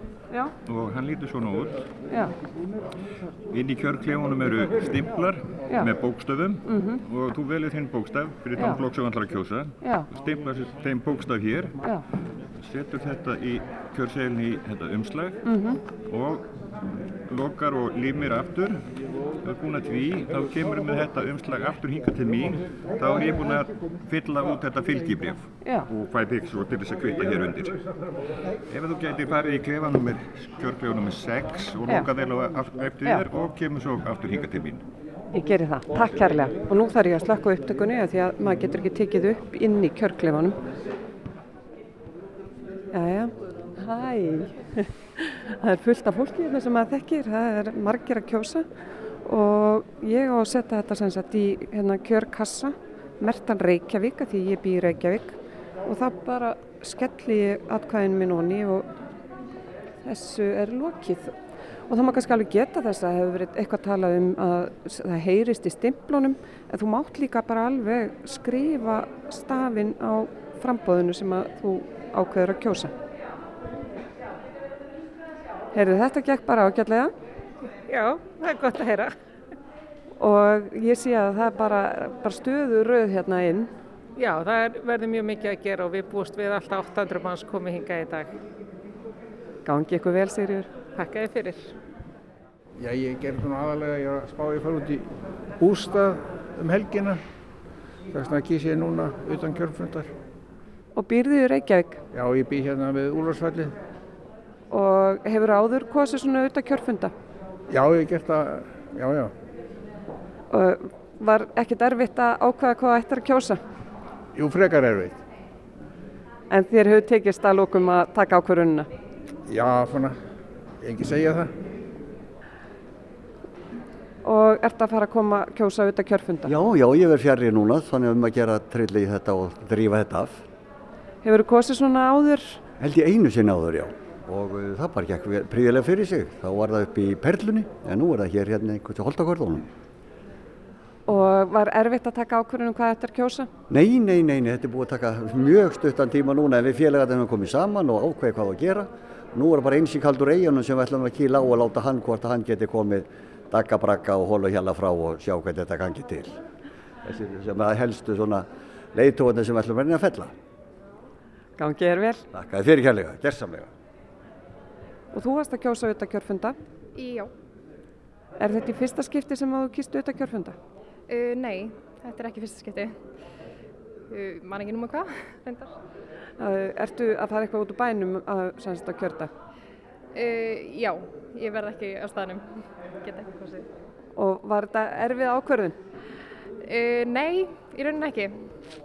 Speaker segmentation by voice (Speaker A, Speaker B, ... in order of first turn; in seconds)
Speaker A: 0.6-1.9, 3.5-11.8, 12.6-15.4, 16.0-16.5, 17.1-18.8, 19.4-27.8, 28.7-34.8
Speaker B: 6.6-7.0, 9.8-10.1, 15.4-15.8, 35.3-40.6, 42.9-48.6, 49.2-58.9, 60.0-61.3, 61.9-72.9, 75.7-77.1, 80.2-83.7, 89.6-90.7, 100.9-102.0, 104.7-107.1, 110.5-113.6, 116.5-118.9, 124.2-126.5, 131.2-132.6, 141.1-143.5, 161.6-162.2, 165.1-166.6, 168.4-170.6, 176.4-179.3, 184.2-185.8
Speaker C: 77.9-79.2, 84.2-88.3, 90.9-91.7
Speaker D: 92.8-97.2, 98.1-100.1, 102.1-103.8, 107.7-109.3, 114.3-115.2, 119.5-120.1, 120.8-121.5
Speaker E: 126.5-130.5, 132.8-139.7, 143.7-156.4, 157.0-160.3, 162.3-163.7
Speaker F: 166.9-167.3, 171.1-173.0, 174.1-175.8, 180.1-183.7, 186.6-188.5